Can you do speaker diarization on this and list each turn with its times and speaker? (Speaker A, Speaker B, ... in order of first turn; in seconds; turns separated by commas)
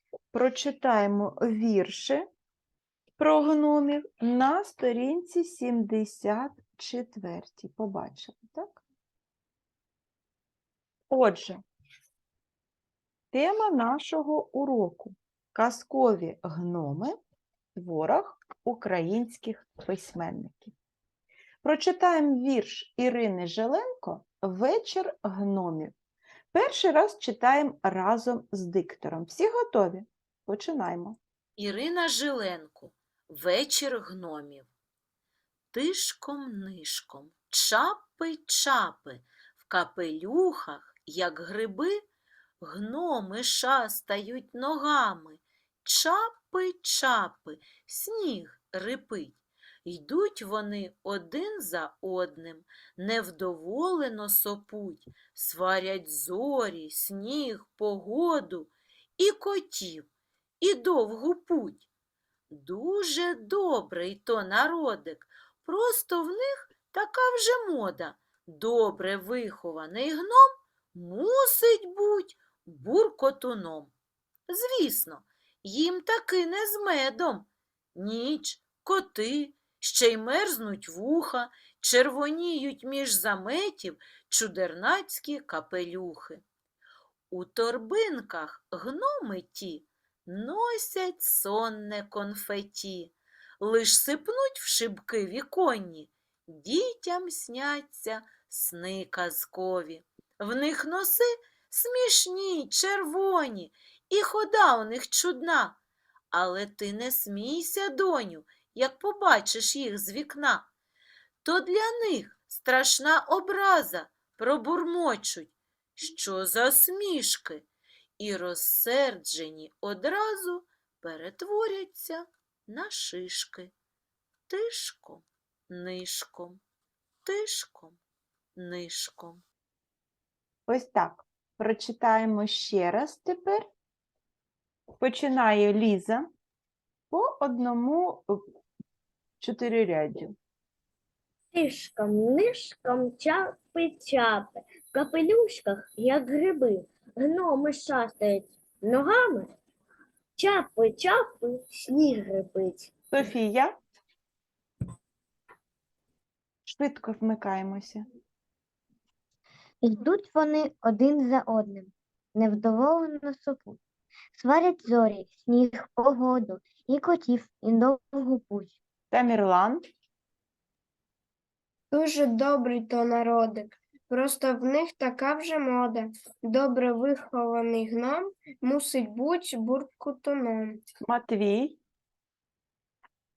Speaker A: 0.3-2.2, Speaker A: 3.2-8.8, Speaker A: 11.1-11.6, Speaker A: 13.3-17.2, Speaker A: 17.8-20.7, Speaker A: 21.6-25.9, Speaker A: 26.5-31.2, Speaker B: 31.6-34.7, Speaker B: 35.7-42.0, Speaker B: 42.6-60.1, Speaker B: 60.6-61.9, Speaker B: 62.5-73.9, Speaker B: 74.5-86.4, Speaker B: 87.3-105.8, Speaker B: 106.3-110.7, Speaker B: 111.4-117.7, Speaker B: 118.2-123.7, Speaker B: 124.5-126.6, Speaker B: 127.2-128.0, Speaker B: 128.6-129.4, Speaker A: 130.7-133.7, Speaker A: 135.0-136.3, Speaker A: 137.1-138.4, Speaker A: 139.4-140.3, Speaker C: 141.5-149.5, Speaker C: 150.4-152.9, Speaker A: 153.1-153.8, Speaker A: 156.7-158.0, Speaker D: 159.8-163.8, Speaker D: 164.3-168.8, Speaker A: 169.1-169.8, Speaker E: 171.9-180.8, Speaker A: 181.1-181.8